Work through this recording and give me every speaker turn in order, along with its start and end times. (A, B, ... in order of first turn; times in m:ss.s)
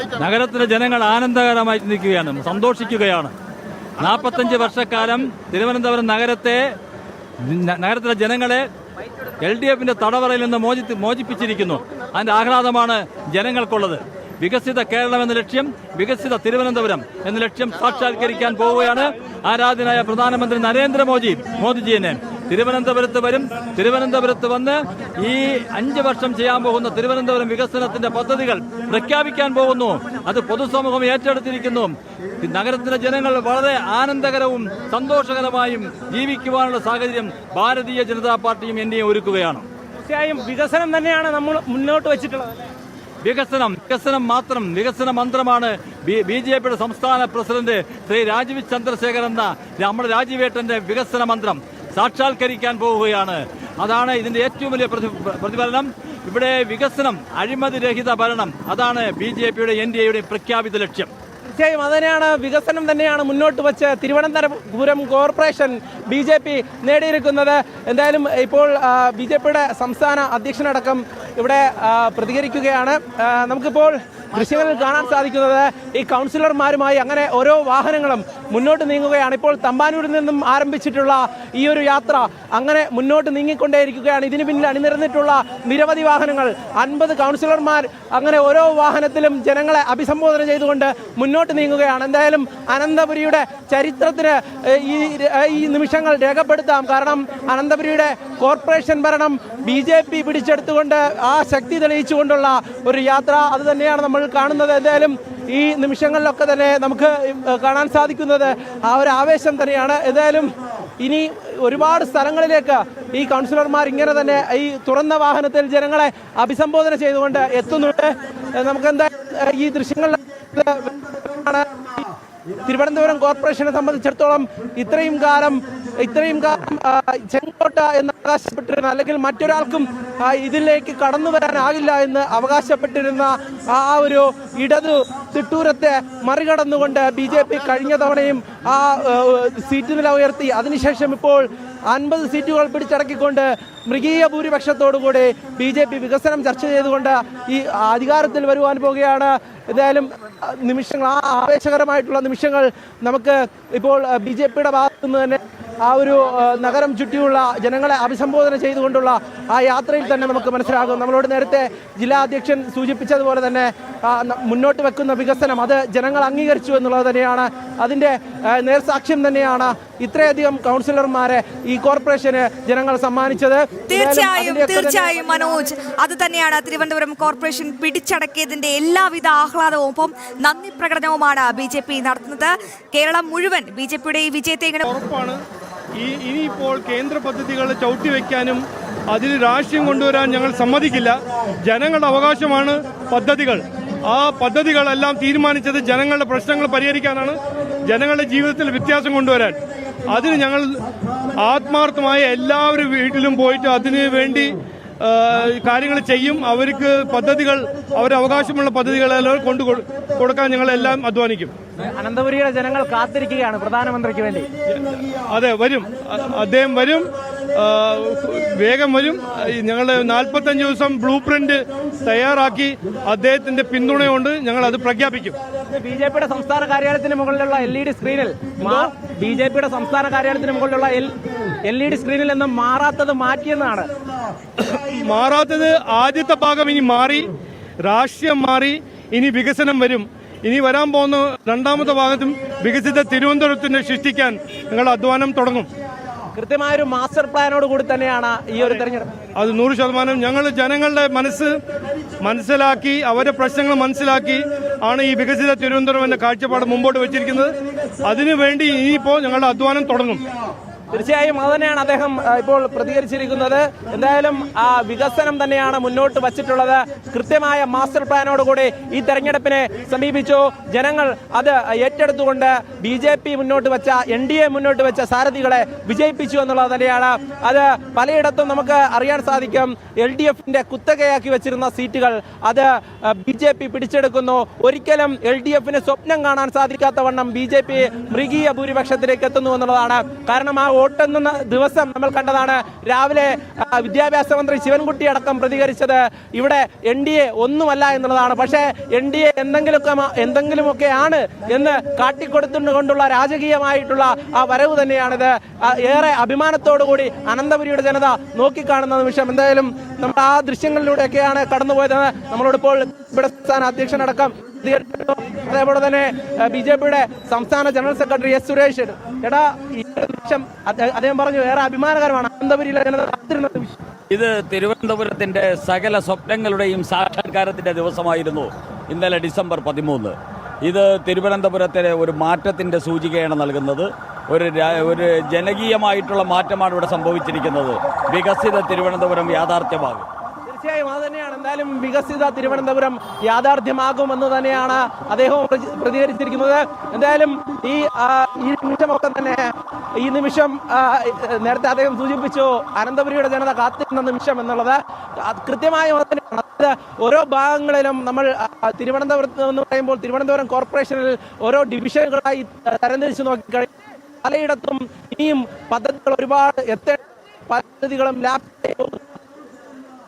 0:00.2-0:03.3 A
0:04.0-0:06.7 A
0:07.4-0:08.7 A
0:09.4-0:39.6 A
0:40.0-0:42.6 B
0:43.2-1:01.1 A
1:01.5-2:02.1 B
2:02.7-2:55.5 B
2:53.9-3:04.8 C
3:04.8-3:05.4 D
3:06.0-3:19.6 D
3:20.1-3:20.8 D
3:21.4-3:31.5 D
3:31.8-3:34.5 B
3:34.7-3:45.4 D
3:45.7-3:53.9 B
3:54.6-3:57.3 D
3:57.8-4:05.7 D
4:06.4-4:09.1 B
4:09.4-4:11.6 D
4:12.2-4:20.2 D
4:20.9-5:23.8 B
5:24.1-5:40.1 E
5:40.5-6:03.7 B
6:04.2-6:09.2 B